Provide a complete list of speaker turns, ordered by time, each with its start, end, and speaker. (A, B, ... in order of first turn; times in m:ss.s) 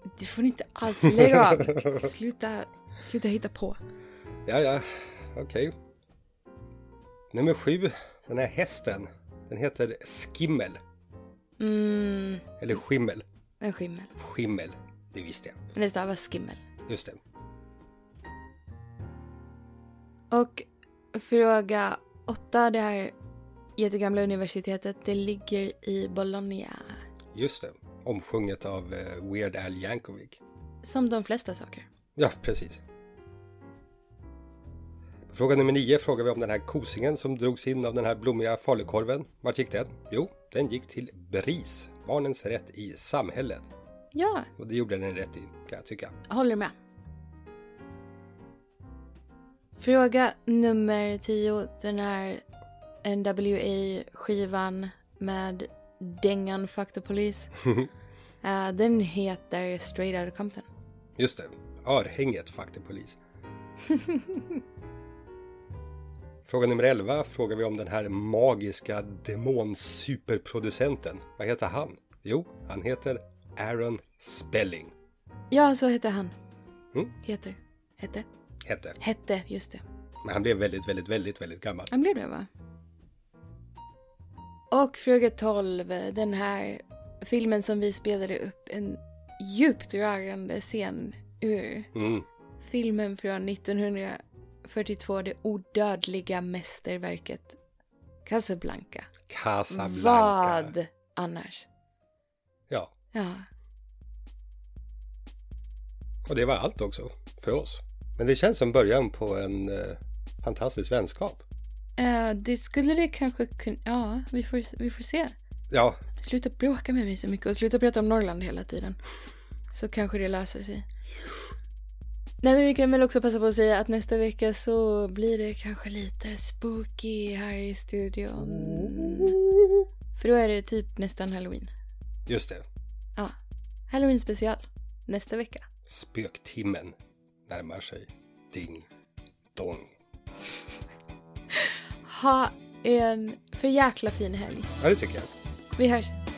0:00.2-0:03.8 A
0:01.0-0:02.0 B
0:04.5-0:05.7 B
0:07.3-0:10.8 B
0:11.6-0:12.5 A
0:12.6-0:13.2 B
0:13.6-0:14.1 A
0:14.2-0:15.6 B
0:15.8-0:16.6 A
0:16.9-0:17.2 B
0:20.3-0:23.2 A
0:23.8-0:27.0 A
0:27.3-0:30.4 B
0:30.8-0:31.9 A
0:32.2-0:32.8 B
0:35.3-0:43.7 B
0:44.1-0:44.5 A
0:44.6-0:46.2 B
0:46.3-0:46.7 A
0:49.8-0:52.4 A
0:53.0-0:57.5 A
0:58.4-1:00.7 A
1:01.2-1:03.2 B
1:03.9-1:04.4 A
1:06.5-1:14.9 B
1:15.5-1:16.3 A
1:17.2-1:18.3 A
1:18.6-1:19.0 B
1:19.0-1:19.8 A
1:20.2-1:21.9 B
1:21.9-1:22.5 A
1:24.7-1:31.9 A
1:31.9-1:32.3 B
1:32.6-1:37.6 A
1:38.2-1:39.1 A
1:39.3-1:40.7 B
1:39.7-1:41.7 A
1:43.1-1:43.5 A
1:46.3-1:51.4 B
1:52.0-1:55.4 A
1:55.7-1:56.0 B
1:56.2-1:59.0 A
1:59.7-2:00.9 A
2:02.4-2:09.4 A
2:08.6-2:09.2 B
2:10.2-2:11.7 A
2:12.3-2:12.6 B
2:13.9-2:15.7 A
2:15.9-2:17.0 B
2:17.5-2:18.9 B
2:19.6-2:20.0 B
2:21.5-2:24.7 A
2:24.8-2:25.3 B
2:25.8-2:26.2 A